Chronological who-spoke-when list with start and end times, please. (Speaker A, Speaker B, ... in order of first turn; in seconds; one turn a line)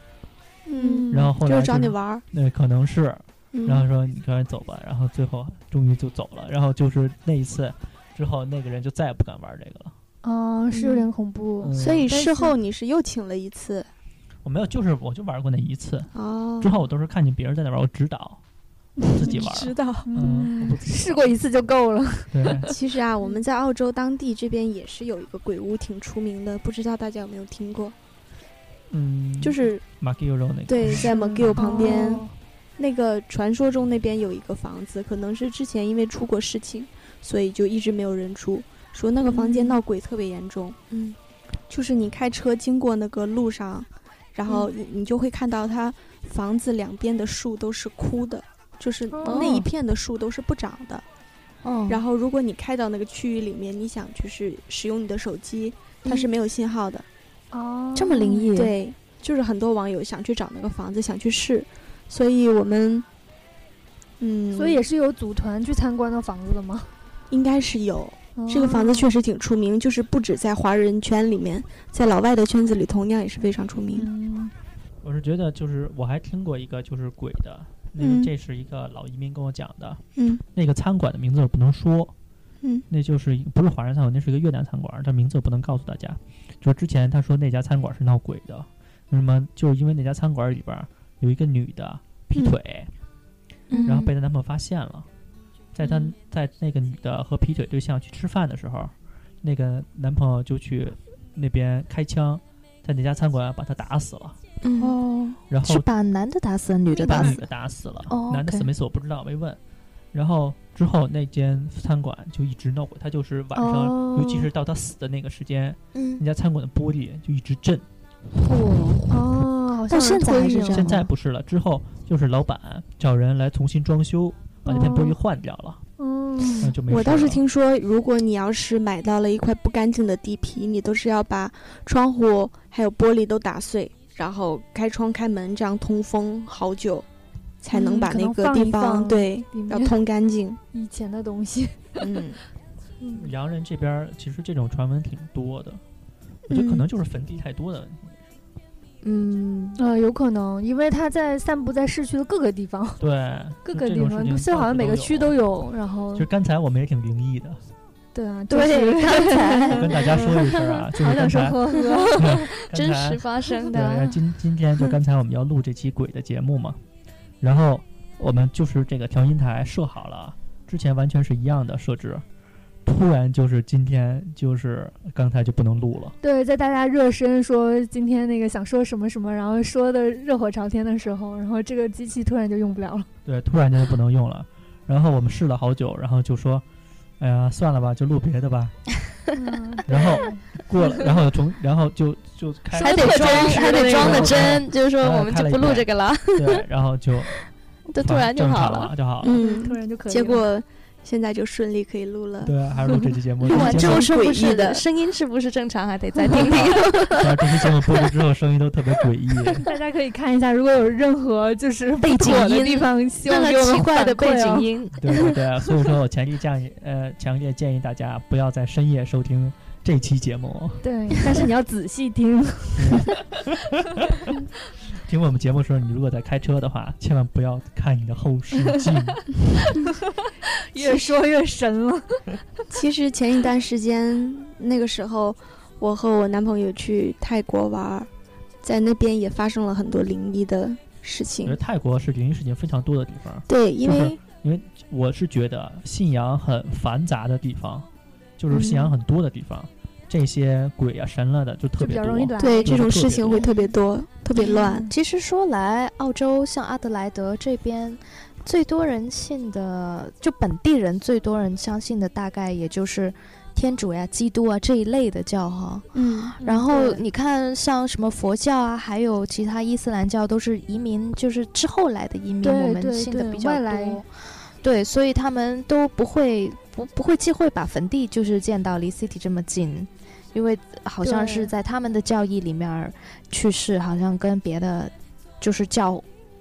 Speaker A: 0.7-2.2
Speaker B: 0.8-1.3
Speaker C: 1.1-9.9
Speaker A: 3.5-3.9
Speaker B: 10.2-12.5
Speaker A: 10.7-11.1
Speaker C: 11.6-12.1
Speaker A: 11.8-13.9
Speaker C: 14.4-18.4
Speaker A: 16.1-16.8
Speaker B: 19.0-19.4
Speaker C: 19.1-21.4
Speaker A: 19.2-20.1
Speaker B: 20.1-22.7
Speaker C: 22.3-22.7
Speaker A: 22.7-28.0
Speaker C: 28.9-31.9
Speaker A: 29.4-29.8
Speaker A: 30.7-41.2
Speaker B: 31.0-32.3
Speaker B: 39.3-39.8
Speaker A: 41.7-51.0
Speaker B: 49.1-49.6
Speaker D: 49.2-49.7
Speaker D: 51.6-52.0
Speaker A: 51.9-57.1
Speaker B: 57.5-58.5
Speaker D: 58.0-58.8
Speaker A: 58.5-63.1
Speaker A: 64.2-64.8
Speaker B: 64.5-66.9
Speaker A: 67.3-74.1
Speaker B: 68.4-69.1
Speaker B: 74.0-74.5
Speaker C: 75.0-80.0
Speaker A: 78.0-78.3
Speaker A: 80.2-80.4
Speaker C: 80.5-82.1
Speaker C: 82.9-92.9
Speaker A: 93.7-94.0
Speaker D: 93.7-94.1
Speaker C: 93.8-95.1
Speaker C: 95.7-104.4
Speaker D: 104.7-105.0
Speaker A: 104.8-105.4
Speaker C: 105.5-105.9
Speaker D: 105.6-107.4
Speaker C: 107.0-109.6
Speaker D: 108.1-108.7
Speaker C: 110.1-117.8
Speaker B: 113.5-114.5
Speaker D: 116.0-116.2
Speaker D: 118.4-119.2
Speaker B: 119.1-120.9
Speaker D: 119.9-121.1
Speaker C: 120.7-125.8
Speaker B: 124.7-125.2
Speaker B: 126.0-126.7
Speaker C: 126.6-127.4
Speaker A: 126.9-137.1
Speaker A: 137.6-140.6
Speaker B: 137.7-140.0
Speaker B: 140.7-142.2
Speaker A: 142.0-142.4
Speaker B: 143.0-143.3
Speaker C: 143.1-145.8
Speaker A: 146.5-146.8
Speaker C: 146.5-148.2
Speaker D: 149.0-149.8
Speaker B: 149.8-153.0
Speaker C: 153.0-155.4
Speaker B: 153.7-156.3
Speaker C: 156.2-157.6
Speaker B: 158.1-162.5
Speaker D: 158.5-160.4
Speaker C: 159.7-161.6
Speaker D: 161.9-162.2
Speaker C: 162.2-166.8
Speaker D: 162.7-164.2
Speaker C: 167.4-172.2
Speaker C: 172.8-176.2
Speaker B: 176.2-183.1
Speaker C: 183.3-186.6
Speaker C: 187.2-188.8
Speaker B: 189.3-190.9
Speaker C: 189.9-197.4
Speaker D: 192.8-196.7
Speaker B: 192.8-194.4
Speaker A: 193.1-193.8
Speaker D: 197.9-198.9
Speaker C: 198.0-199.4
Speaker A: 199.2-202.5
Speaker B: 199.4-200.4
Speaker C: 202.4-204.1
Speaker A: 203.4-204.8
Speaker D: 203.5-208.1
Speaker C: 206.3-209.7
Speaker B: 209.6-214.7
Speaker D: 212.0-215.4
Speaker C: 215.0-220.8
Speaker B: 220.8-223.1
Speaker C: 222.8-224.3
Speaker C: 225.1-229.4
Speaker B: 230.2-232.7
Speaker A: 230.8-231.1
Speaker A: 232.7-238.1
Speaker A: 238.6-241.6
Speaker C: 241.4-247.9
Speaker A: 243.5-244.2
Speaker C: 248.4-253.4
Speaker A: 248.5-248.9
Speaker B: 251.8-252.7
Speaker A: 252.4-254.9
Speaker D: 253.4-253.7
Speaker D: 254.3-286.1
Speaker A: 265.9-266.3
Speaker B: 266.4-267.0
Speaker B: 272.4-274.0
Speaker B: 281.0-281.5